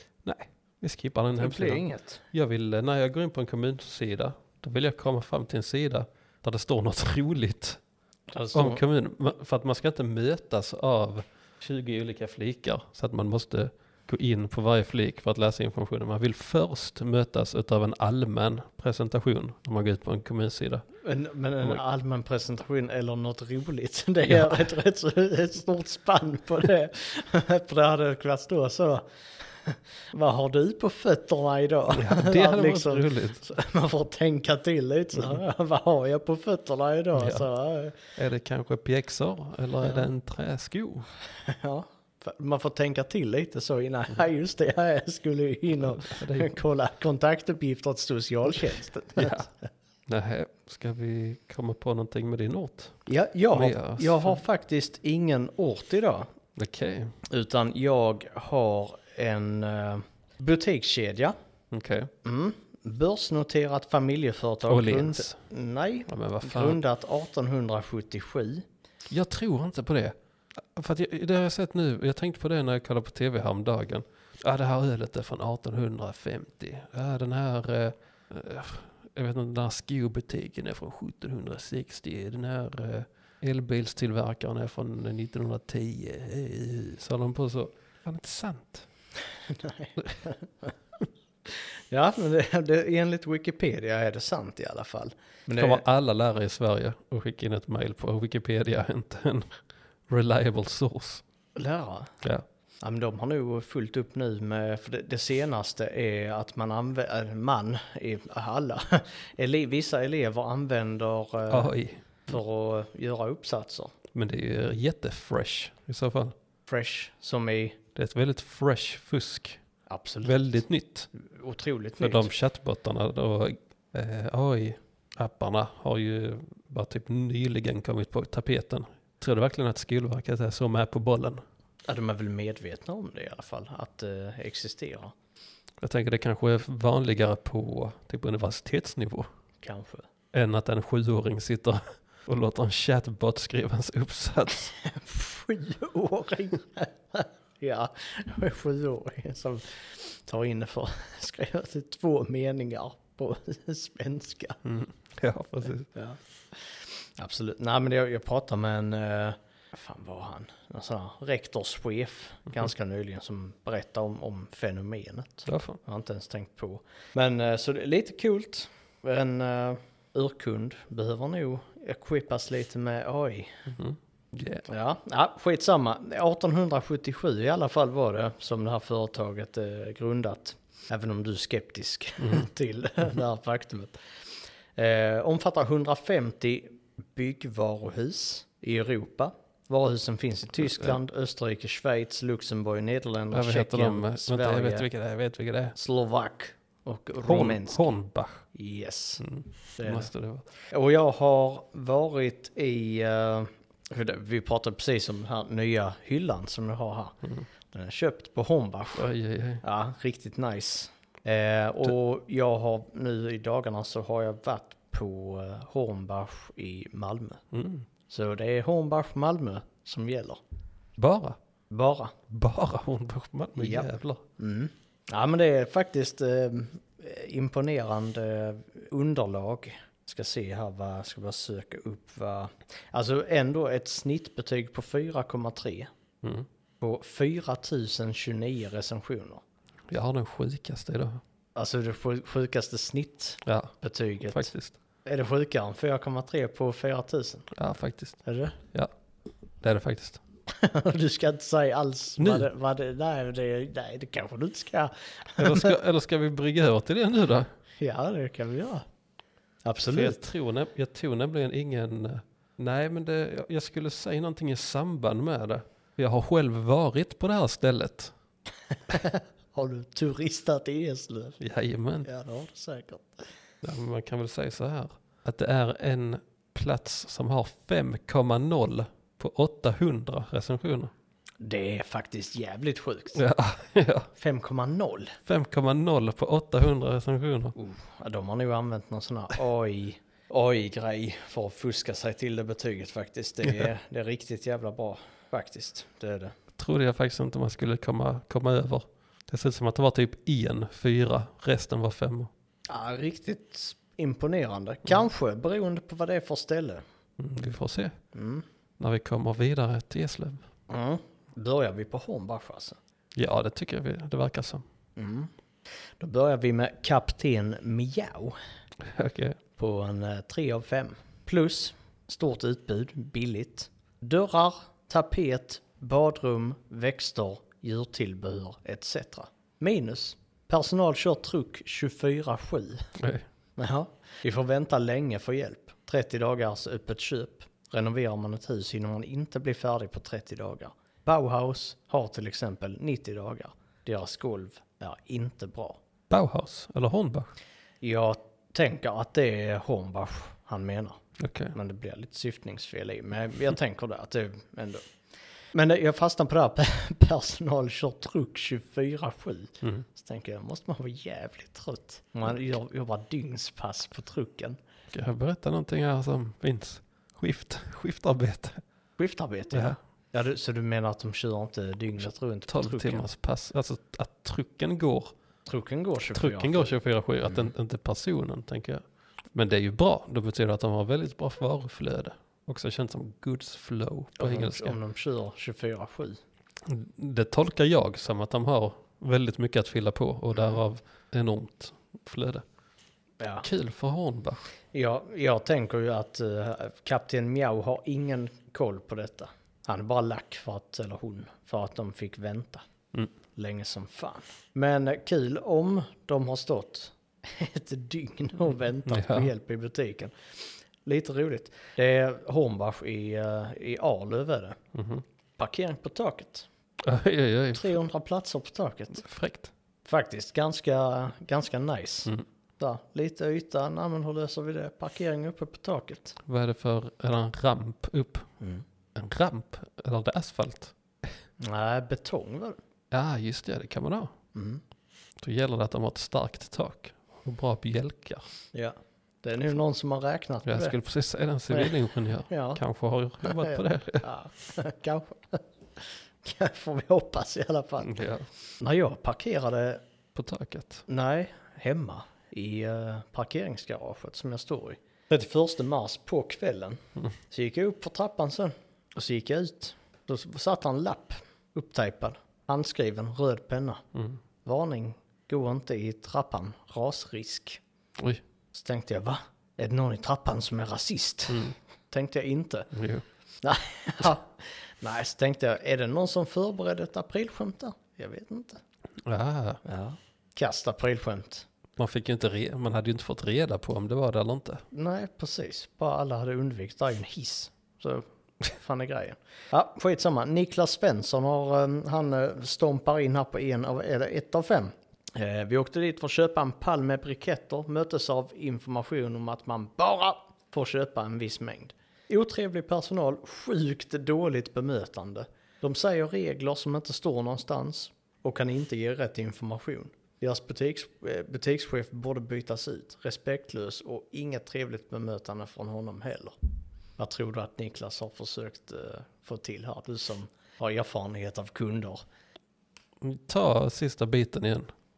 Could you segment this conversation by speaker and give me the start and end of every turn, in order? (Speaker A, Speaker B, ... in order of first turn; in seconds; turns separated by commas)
Speaker A: 0.2-7.8, Speaker B: 1.4-2.2, Speaker B: 8.3-8.8, Speaker A: 8.5-20.8, Speaker B: 21.0-38.1, Speaker A: 24.3-24.6, Speaker A: 31.9-33.4, Speaker A: 37.2-37.5, Speaker A: 38.1-41.1, Speaker B: 39.8-40.1, Speaker B: 41.4-49.4, Speaker A: 45.8-46.6, Speaker A: 49.1-49.5, Speaker A: 50.1-54.4, Speaker B: 53.1-56.3, Speaker A: 56.5-57.1, Speaker B: 57.3-61.3, Speaker A: 61.7-62.1, Speaker B: 62.2-68.6, Speaker A: 64.7-65.4, Speaker A: 66.1-66.8, Speaker A: 69.1-88.9, Speaker B: 89.5-90.7, Speaker B: 91.5-95.8, Speaker A: 95.5-99.6, Speaker A: 100.1-101.2, Speaker B: 101.5-102.1, Speaker B: 102.8-111.7, Speaker A: 111.5-112.3, Speaker B: 112.2-113.9, Speaker A: 114.1-116.3, Speaker B: 116.7-117.8, Speaker A: 117.9-119.6, Speaker B: 119.9-120.3, Speaker A: 120.2-121.1, Speaker B: 121.1-122.3, Speaker A: 122.0-131.4, Speaker B: 131.9-135.1, Speaker A: 135.8-139.3, Speaker B: 139.6-140.1, Speaker A: 140.3-144.7, Speaker B: 144.8-154.6, Speaker A: 154.6-155.9, Speaker B: 155.9-173.7, Speaker A: 165.5-165.8, Speaker A: 173.7-174.6, Speaker B: 174.7-184.1, Speaker A: 182.2-182.4, Speaker B: 184.8-194.9, Speaker A: 193.3-195.8, Speaker B: 195.8-197.9, Speaker A: 197.2-198.4, Speaker B: 198.5-199.2, Speaker A: 199.2-200.5, Speaker B: 199.8-200.1, Speaker B: 200.6-209.1, Speaker A: 208.9-209.6, Speaker B: 209.6-217.4, Speaker A: 217.5-217.8, Speaker B: 218.1-220.4, Speaker A: 221.0-221.4, Speaker B: 221.7-222.2, Speaker A: 222.3-224.2, Speaker B: 223.6-235.9, Speaker A: 236.2-236.5, Speaker B: 236.8-239.4, Speaker A: 239.9-241.2, Speaker B: 241.5-244.5, Speaker A: 243.4-244.7, Speaker B: 245.0-247.5, Speaker A: 247.5-248.9, Speaker B: 248.2-248.6, Speaker A: 249.6-250.2, Speaker B: 250.5-255.7, Speaker A: 252.2-252.5, Speaker A: 255.4-257.5, Speaker B: 257.8-258.9, Speaker B: 259.6-260.2, Speaker A: 259.8-268.1, Speaker B: 268.9-271.4, Speaker A: 271.4-272.1, Speaker B: 272.0-273.2, Speaker A: 273.6-280.9, Speaker B: 281.4-283.2, Speaker A: 283.1-284.1, Speaker B: 284.1-285.2, Speaker A: 285.3-287.5, Speaker B: 287.5-296.3, Speaker A: 296.6-302.3, Speaker B: 302.7-306.8, Speaker A: 307.2-307.9, Speaker B: 308.1-308.4, Speaker A: 308.8-310.4, Speaker B: 310.7-312.8, Speaker A: 313.1-314.6, Speaker B: 314.9-315.3, Speaker B: 316.0-318.4, Speaker A: 318.8-319.4, Speaker B: 319.6-332.9, Speaker A: 333.0-333.2, Speaker B: 333.6-345.8, Speaker A: 346.1-347.3, Speaker B: 347.8-351.0, Speaker A: 351.2-351.5, Speaker B: 351.5-354.9, Speaker B: 355.5-364.6, Speaker A: 364.9-368.6, Speaker B: 369.0-373.1, Speaker A: 369.5-369.8, Speaker A: 372.5-375.1, Speaker B: 375.5-376.7, Speaker A: 376.1-384.8, Speaker B: 384.2-386.2, Speaker A: 386.6-392.4, Speaker B: 393.2-393.4, Speaker A: 393.4-394.4, Speaker B: 394.7-402.6, Speaker B: 403.4-414.6, Speaker A: 408.9-409.3, Speaker A: 414.7-415.0, Speaker B: 415.4-416.5, Speaker A: 416.8-417.8, Speaker B: 417.5-419.0, Speaker A: 419.0-419.5, Speaker B: 419.9-426.2, Speaker A: 426.2-428.3, Speaker A: 428.9-431.1, Speaker B: 431.4-432.6, Speaker A: 432.9-434.1, Speaker B: 434.3-434.6, Speaker A: 435.2-438.2, Speaker B: 438.5-440.7, Speaker A: 440.4-444.0, Speaker B: 441.5-441.8, Speaker B: 442.3-442.6, Speaker B: 443.2-448.0, Speaker A: 447.8-448.3, Speaker B: 448.6-449.8, Speaker A: 450.1-450.8, Speaker B: 450.9-463.8, Speaker B: 464.4-467.6, Speaker B: 468.5-472.7, Speaker A: 471.3-471.5, Speaker A: 472.7-473.0, Speaker B: 473.4-478.6, Speaker A: 479.0-479.6, Speaker B: 479.6-481.4, Speaker A: 481.8-484.6, Speaker B: 484.7-516.3, Speaker B: 517.0-522.0, Speaker A: 523.0-524.7